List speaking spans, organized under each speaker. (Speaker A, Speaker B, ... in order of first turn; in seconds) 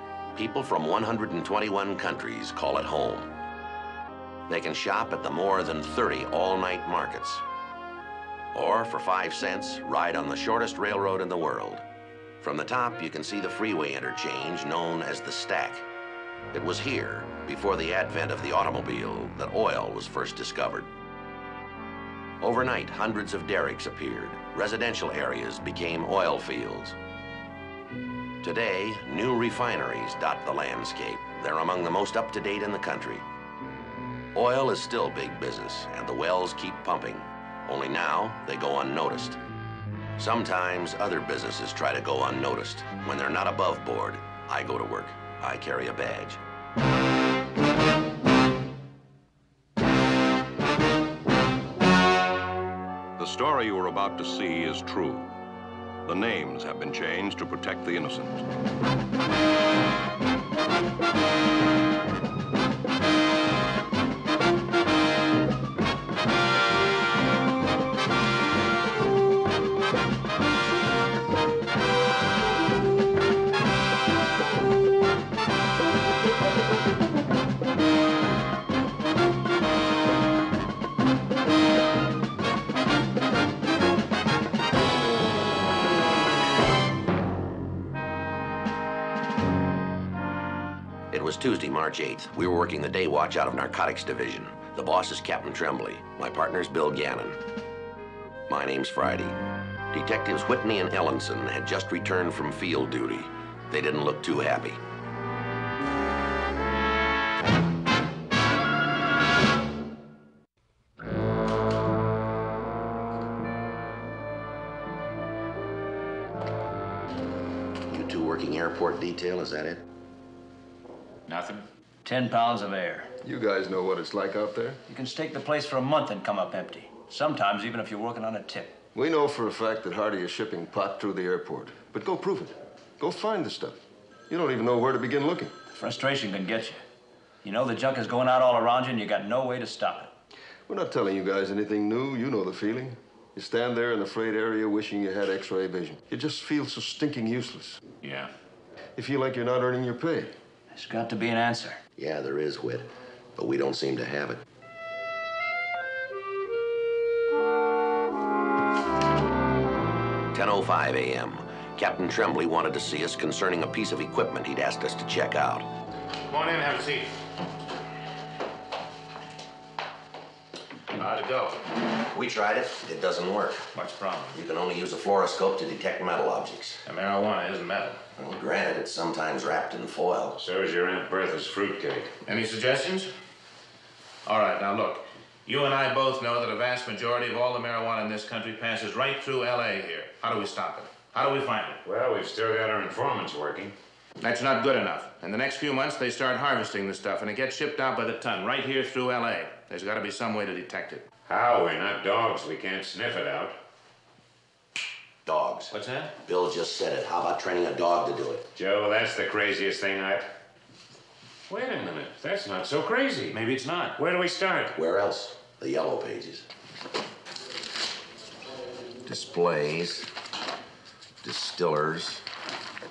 Speaker A: 0.3-3.3, 4.5-7.4, 8.5-11.8, 12.4-15.9, 16.5-20.9, 22.4-27.0, 28.4-33.2, 34.3-39.4, 40.2-46.4, 91.1-97.4, 98.5-99.4, 99.9-104.8, 117.9-119.8, 152.0-154.4, 160.3-165.7, 172.1-173.7, 174.3-176.8, 178.2-180.4, 205.2-205.7, 206.3-208.5, 214.8-216.5, 219.1-220.1, 221.2-222.2
Speaker B: 53.2-55.3, 56.0-58.4
Speaker C: 121.3-121.7, 148.0-148.3, 180.4-182.1, 191.8-193.8, 201.3-203.6, 208.6-210.3, 211.5-213.4, 214.0-214.8
Speaker D: 122.0-123.1, 124.9-128.8, 135.7-136.8, 137.4-140.1, 150.7-151.8
Speaker E: 123.2-124.8, 128.9-135.6, 140.7-147.8, 149.0-150.3
Speaker F: 166.3-167.2, 171.0-171.6, 173.7-174.4, 176.9-178.0, 182.2-183.1, 184.3-191.8, 194.2-201.1, 205.7-206.1, 213.3-214.0